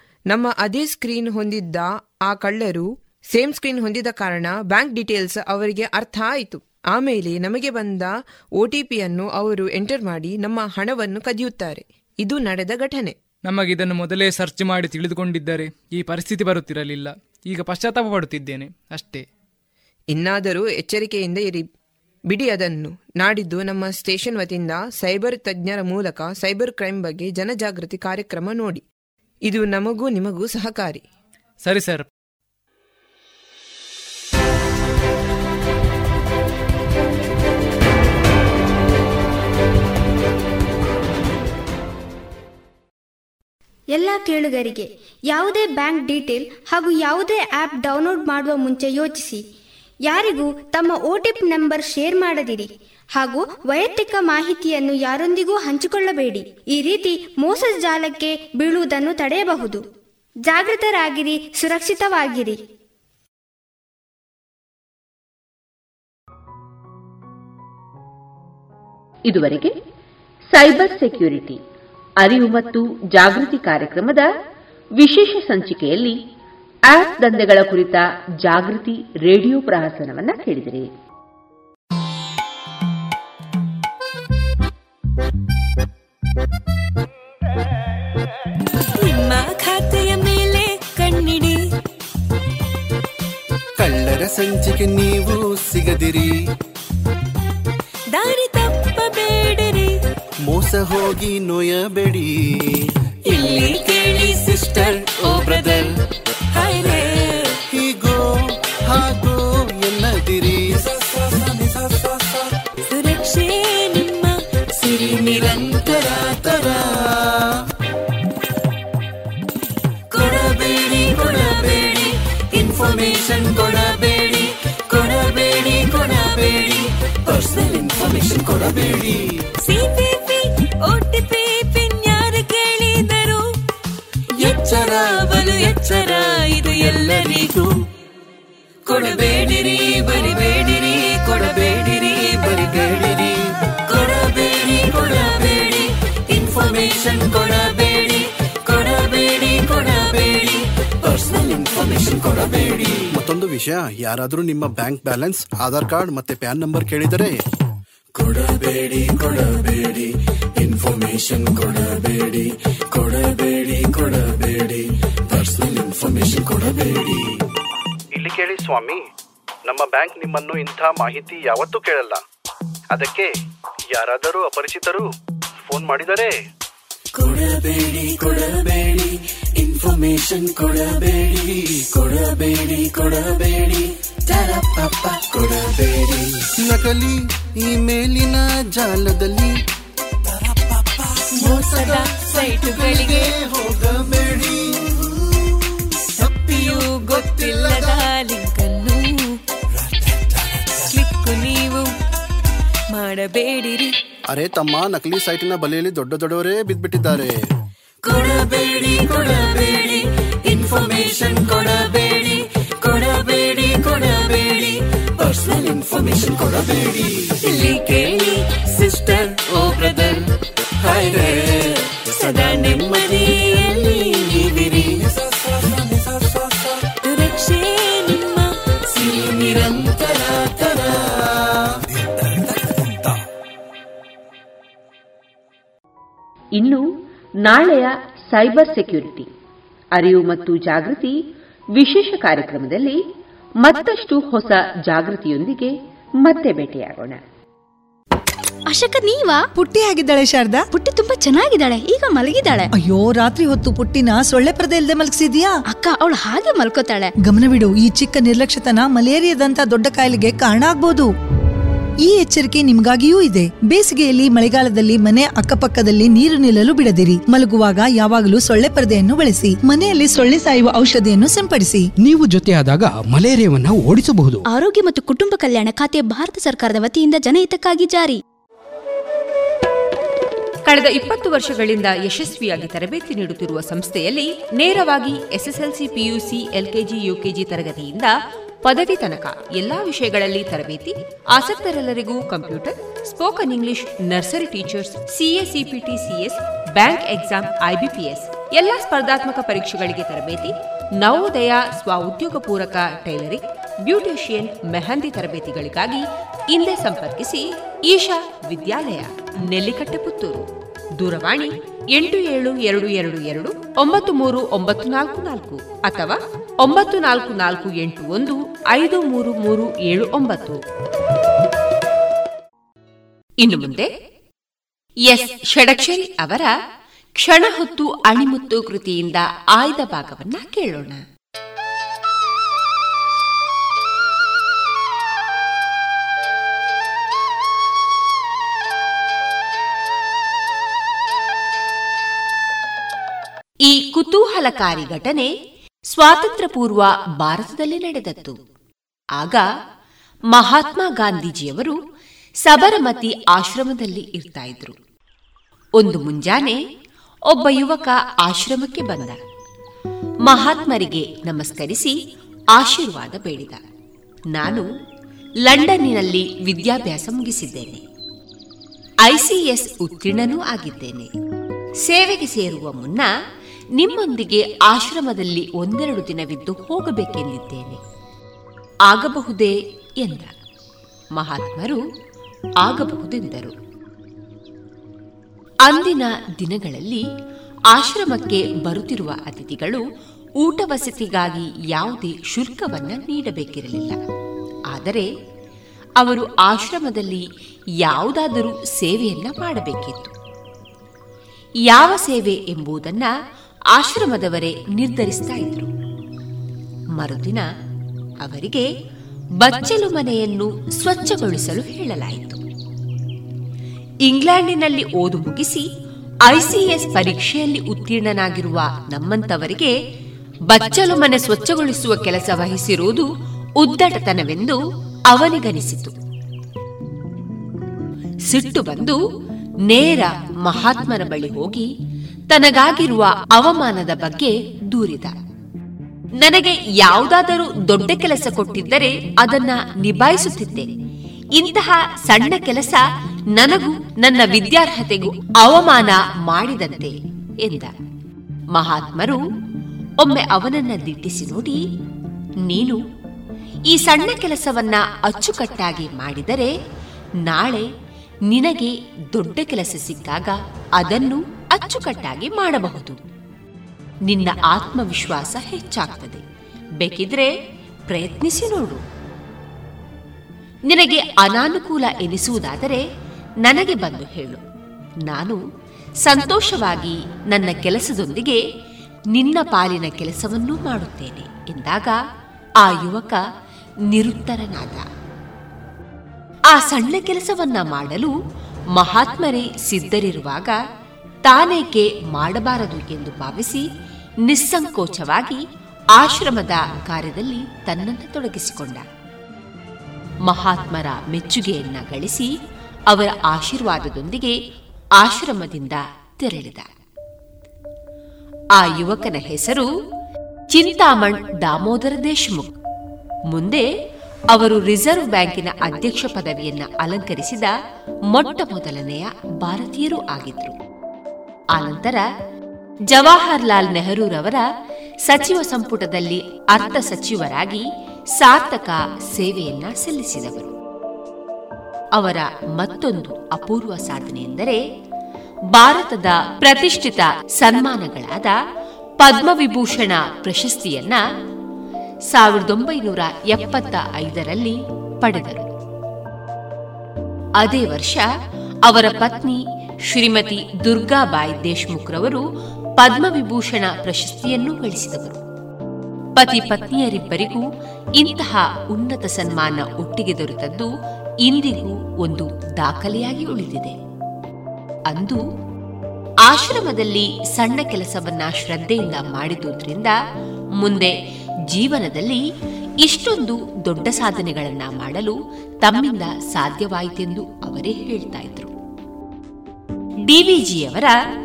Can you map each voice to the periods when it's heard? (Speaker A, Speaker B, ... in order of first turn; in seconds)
Speaker A: 0.3-13.2, 20.1-21.7, 22.3-28.8, 29.5-31.0, 202.9-203.9
Speaker B: 13.5-19.2, 31.6-32.1
Speaker C: 43.9-49.4, 50.1-59.8, 60.5-62.6
Speaker D: 69.3-69.7, 70.5-71.6, 72.2-74.3, 75.0-76.2, 76.9-80.9, 236.6-236.8, 237.4-239.3, 240.0-241.2, 241.8-243.0, 243.6-247.2, 280.7-310.5, 311.0-320.6, 323.4-323.9, 325.1-326.5, 327.2-331.0, 343.6-345.3, 345.9-348.4, 349.2-349.5, 350.3-351.8, 352.4-354.8, 355.8-356.6, 357.3-359.2, 360.2-362.0, 362.6-363.6, 364.3-364.7, 365.5-367.8, 369.1-371.1, 371.9-373.1, 373.8-377.8, 378.9-380.3, 381.1-381.8, 382.6-383.5, 385.7-387.0, 387.7-389.8, 390.4-394.0, 394.7-395.1, 396.0-397.2, 397.8-400.1, 401.7-403.1, 403.7-405.7, 407.0-407.4, 408.2-408.7, 409.4-412.4, 414.1-415.7, 416.3-419.7, 420.5-423.1, 423.6-425.9, 428.3-429.0, 429.7-431.7, 432.3-435.1, 436.2-440.7, 441.4-447.7, 448.5-449.2, 450.0-451.6, 452.4-452.8, 453.7-456.5, 457.2-457.7, 458.3-463.0, 464.1-466.2, 466.8-467.3, 467.9-468.8, 470.7-472.8, 473.4-474.4, 475.1-475.4, 476.0-478.4, 479.1-482.0, 482.6-483.2, 483.9-484.9, 486.5-488.1, 488.8-490.6, 491.3-493.7, 494.2-495.4, 495.9-498.9, 500.2-502.3, 502.9-504.4, 505.0-506.7, 508.6-509.7, 510.5-512.5, 513.3-513.7, 514.3-517.5, 518.1-520.6, 521.5-522.0, 522.9-524.5, 525.1-530.5, 532.0-534.6, 535.5-538.3, 539.0-541.0, 542.1-545.5, 547.4-548.0, 548.7-552.2, 552.8-555.2, 556.2-557.5, 558.0-560.7, 561.2-563.8, 564.9-565.2, 566.3-570.0, 570.6-571.0, 571.5-572.2, 572.8-578.5, 580.1-581.0
Speaker E: 88.9-91.6, 98.2-99.9, 103.3-105.9, 106.5-107.5, 112.9-116.8, 120.1-133.4, 134.4-137.7, 138.9-143.3, 143.9-153.0, 158.2-167.2, 177.2-186.3, 198.2-198.6, 208.1-220.2, 220.8-225.0, 227.0-231.0
Speaker F: 93.8-96.3, 100.5-102.3, 107.7-108.3, 108.9-110.8, 153.1-157.4, 186.6-189.6, 192.3-195.0, 204.3-207.3
Speaker G: 168.2-169.0, 169.7-172.2, 172.9-173.3, 173.9-175.1, 175.7-176.4
Speaker H: 248.7-249.5, 250.7-252.7, 255.7-257.1, 274.5-278.2
Speaker I: 249.6-250.7, 252.8-255.6, 257.2-261.1, 262.1-271.9